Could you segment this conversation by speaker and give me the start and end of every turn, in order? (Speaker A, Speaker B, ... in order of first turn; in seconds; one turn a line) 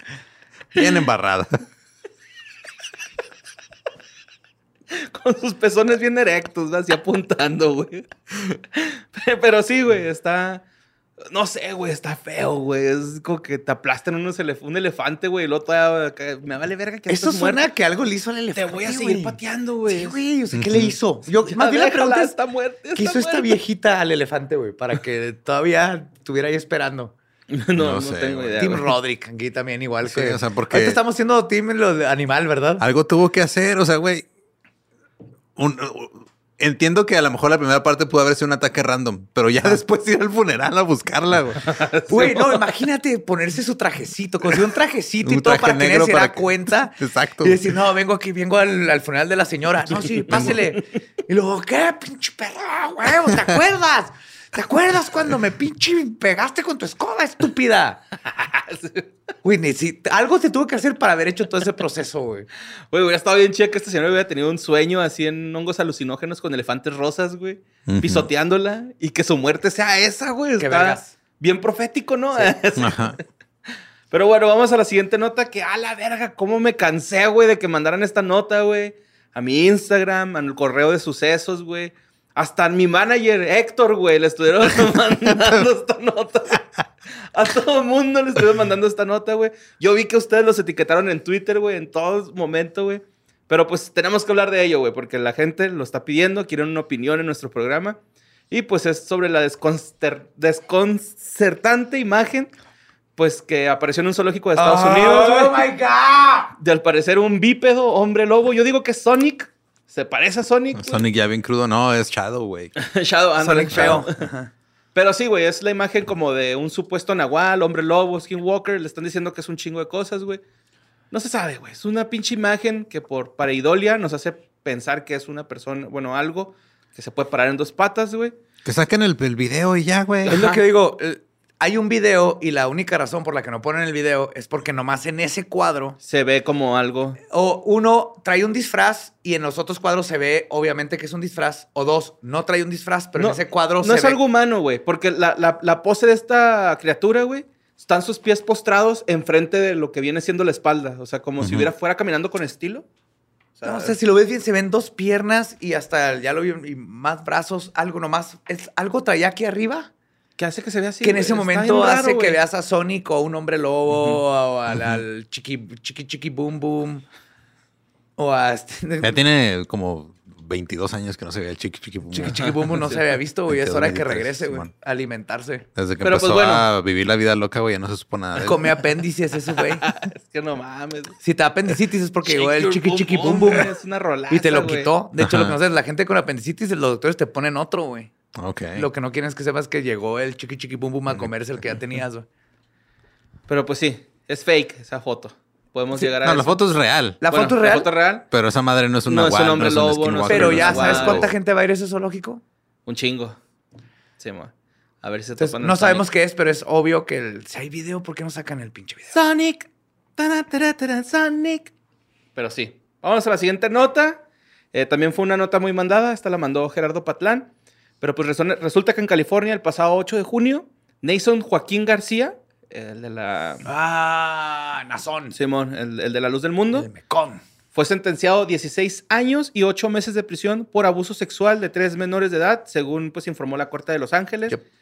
Speaker A: 0.7-1.6
Speaker B: 4.9-10.6
Speaker B: 11.3-17.6
Speaker C: 17.1-22.3
Speaker B: 18.5-20.2
Speaker A: 20.5-20.9
Speaker B: 21.4-23.6
Speaker C: 22.9-27.1
Speaker B: 27.5-28.9
Speaker A: 27.8-28.8
Speaker C: 28.6-32.8
Speaker A: 30.0-31.0
Speaker A: 32.8-34.2
Speaker A: 35.5-41.8
Speaker B: 41.6-42.6
Speaker C: 42.1-58.0
Speaker A: 45.2-47.6
Speaker B: 58.3-59.1
Speaker C: 59.4-62.5
Speaker B: 62.9-73.1
Speaker A: 67.9-68.3
Speaker C: 70.6-71.1
Speaker A: 72.8-73.2
Speaker B: 74.1-86.7
Speaker B: 87.3-98.0
Speaker B: 98.5-102.5
Speaker B: 103.2-105.7
Speaker C: 104.5-106.5
Speaker B: 106.6-111.0
Speaker A: 110.8-112.7
Speaker B: 112.8-114.2
Speaker C: 113.4-114.5
Speaker A: 113.7-114.0
Speaker B: 114.9-120.4
Speaker B: 121.1-128.3
Speaker A: 128.6-130.4
Speaker B: 130.2-130.6
Speaker C: 130.3-136.0
Speaker B: 136.0-137.2
Speaker C: 137.3-144.2
Speaker B: 143.2-152.8
Speaker A: 151.4-151.7
Speaker B: 153.6-153.9
Speaker C: 153.6-159.9
Speaker B: 160.4-162.4
Speaker C: 161.0-167.0
Speaker C: 168.2-169.2
Speaker A: 169.0-172.8
Speaker C: 172.1-175.7
Speaker B: 172.4-173.0
Speaker A: 173.5-174.7
Speaker A: 175.8-178.8
Speaker B: 176.0-176.7
Speaker C: 178.3-179.8
Speaker B: 179.6-181.2
Speaker C: 181.2-183.7
Speaker B: 182.2-184.9
Speaker C: 184.3-188.1
Speaker A: 185.2-185.6
Speaker A: 188.3-188.9
Speaker C: 188.7-192.3
Speaker B: 193.5-196.6
Speaker A: 196.2-197.2
Speaker C: 197.2-197.9
Speaker B: 197.3-198.3
Speaker A: 198.3-201.3
Speaker B: 199.1-201.3
Speaker C: 200.3-202.4
Speaker B: 202.8-203.4
Speaker B: 204.2-206.1
Speaker C: 205.4-209.2
Speaker B: 209.1-211.7
Speaker B: 212.3-214.2
Speaker B: 214.7-217.5
Speaker B: 218.0-223.7
Speaker C: 223.6-225.3
Speaker B: 225.3-226.9
Speaker C: 226.7-227.4
Speaker B: 227.7-234.6